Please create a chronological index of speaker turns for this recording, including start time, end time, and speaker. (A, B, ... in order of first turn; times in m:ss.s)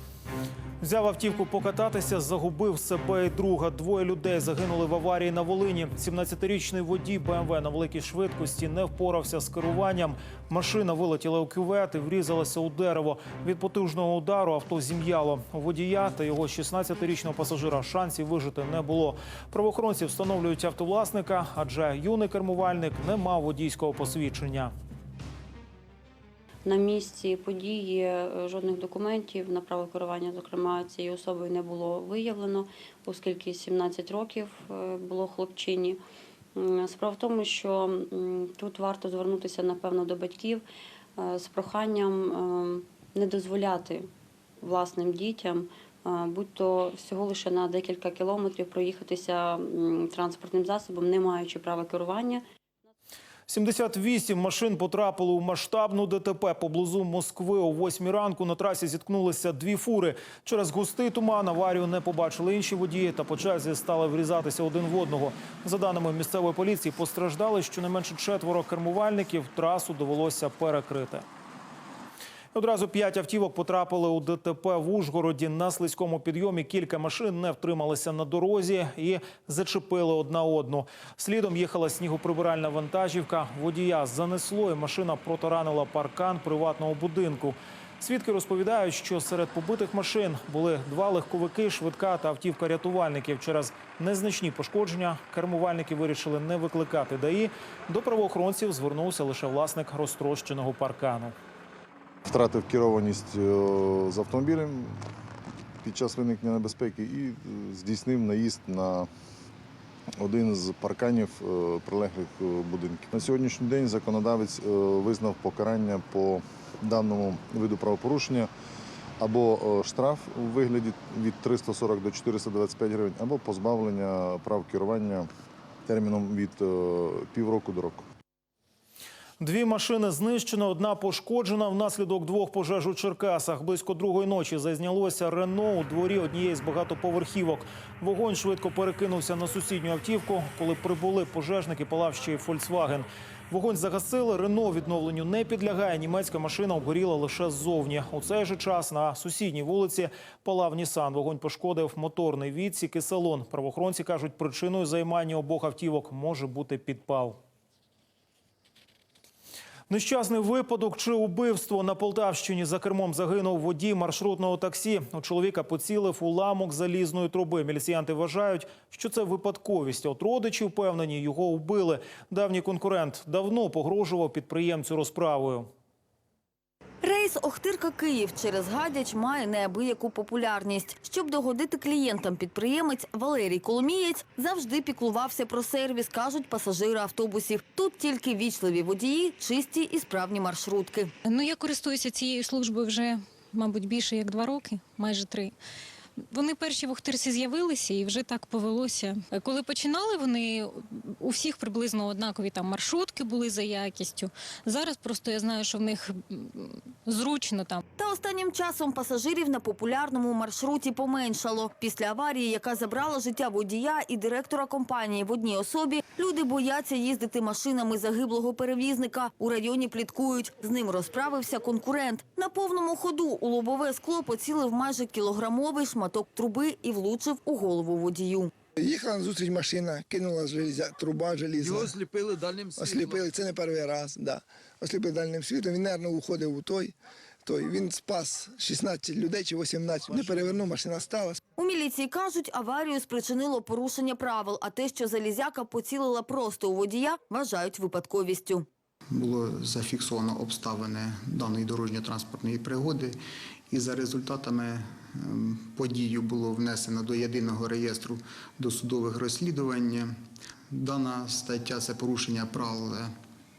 0:00.8-0:24.7 A
0:26.6-0:36.0 B
0:36.6-0:40.6 B
0:41.2-0:44.1 B
0:44.6-0:52.4 B
0:53.5-1:11.2 A
1:12.5-1:41.3 A
1:42.3-1:45.0 C
1:45.8-1:49.1 C
1:50.2-1:58.5 C
1:59.2-2:05.3 C
2:05.9-2:08.0 C
2:09.4-2:37.4 A
2:39.9-2:55.7 A
2:57.0-3:11.1 D
3:11.2-3:15.5 E
3:16.3-3:27.8 E
3:28.0-3:48.5 D
3:48.8-3:52.0 F
3:52.7-3:56.9 F
3:57.4-4:01.4 F
4:01.6-4:08.7 D
4:09.2-4:13.2 G
4:13.7-4:20.1 G
4:20.7-4:23.1 G